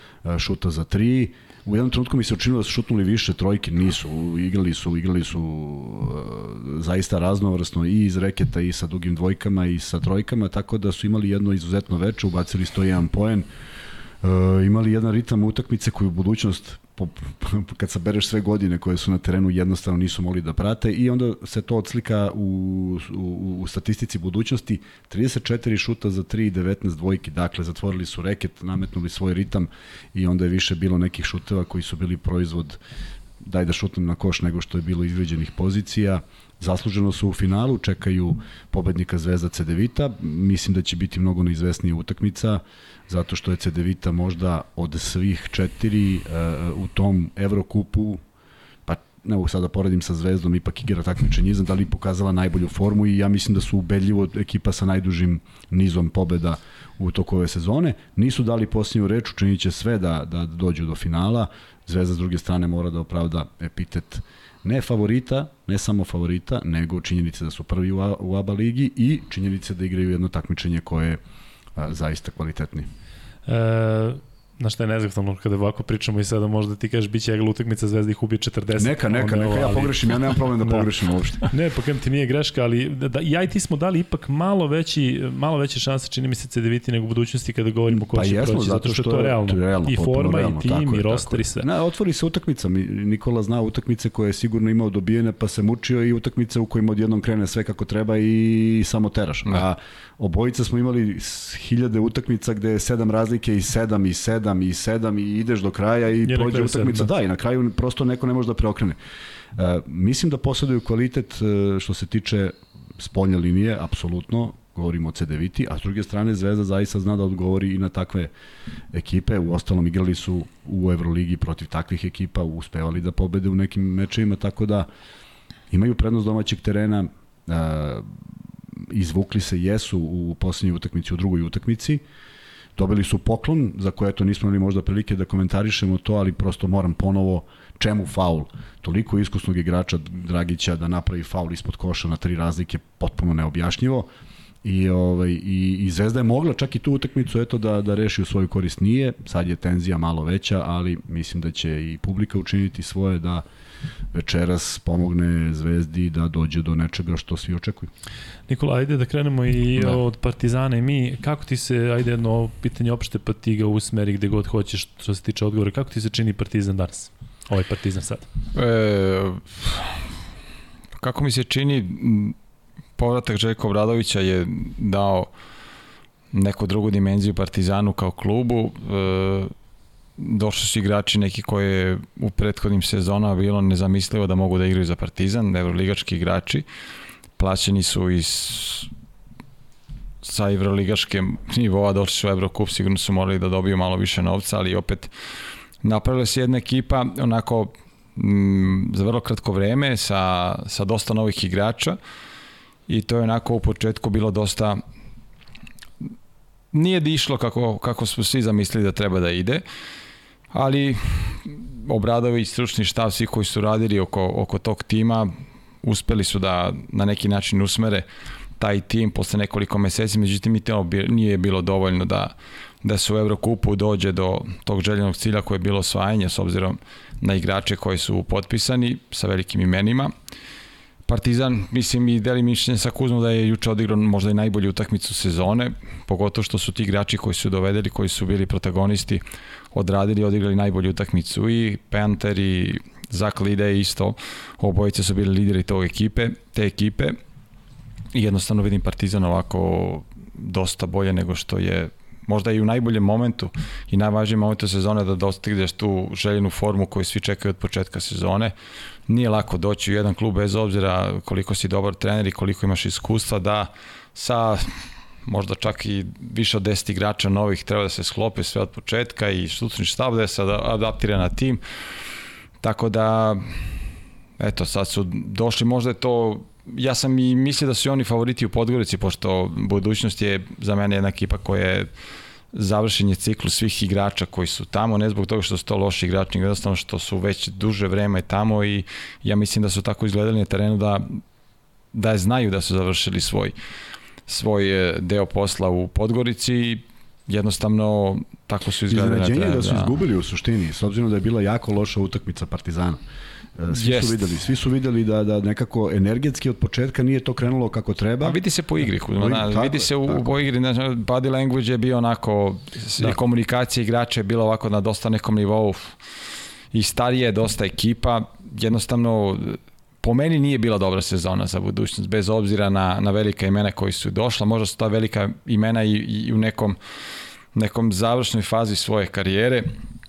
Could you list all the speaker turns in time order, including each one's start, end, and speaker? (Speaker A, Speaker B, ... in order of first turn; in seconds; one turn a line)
Speaker A: 0.2-13.5
Speaker A: 14.2-32.8
Speaker A: 33.4-48.2
Speaker A: 48.9-71.2
Speaker A: 71.8-72.9
Speaker B: 73.5-80.9
Speaker A: 78.8-81.5
Speaker B: 81.5-91.7
Speaker A: 87.9-109.0
Speaker B: 106.2-107.1
Speaker A: 109.5-118.3
Speaker A: 118.9-124.9
Speaker A: 125.7-128.1
Speaker A: 128.8-132.0
Speaker A: 132.8-144.1
Speaker A: 144.6-153.4
Speaker A: 154.1-157.9
Speaker B: 158.5-168.3
Speaker C: 168.5-170.1
Speaker C: 171.0-172.4
Speaker C: 173.0-175.3
Speaker C: 176.3-179.5
Speaker C: 180.2-186.6
Speaker C: 187.4-188.9
Speaker C: 190.2-195.1
Speaker C: 195.8-202.0
Speaker C: 202.9-204.8
Speaker C: 206.7-209.6
Speaker C: 210.5-218.1
Speaker C: 218.6-230.1
Speaker C: 231.1-247.2
Speaker C: 248.1-258.5
Speaker C: 259.1-264.7
Speaker C: 265.2-271.6
Speaker C: 272.6-273.7
Speaker C: 274.4-281.9
Speaker C: 282.5-291.2
Speaker C: 291.9-293.5
Speaker C: 294.3-300.0
Speaker A: 298.9-303.0
Speaker A: 303.6-308.4
Speaker C: 303.7-304.2
Speaker C: 308.2-316.0
Speaker A: 309.2-310.3
Speaker C: 316.7-326.8
Speaker C: 327.5-329.7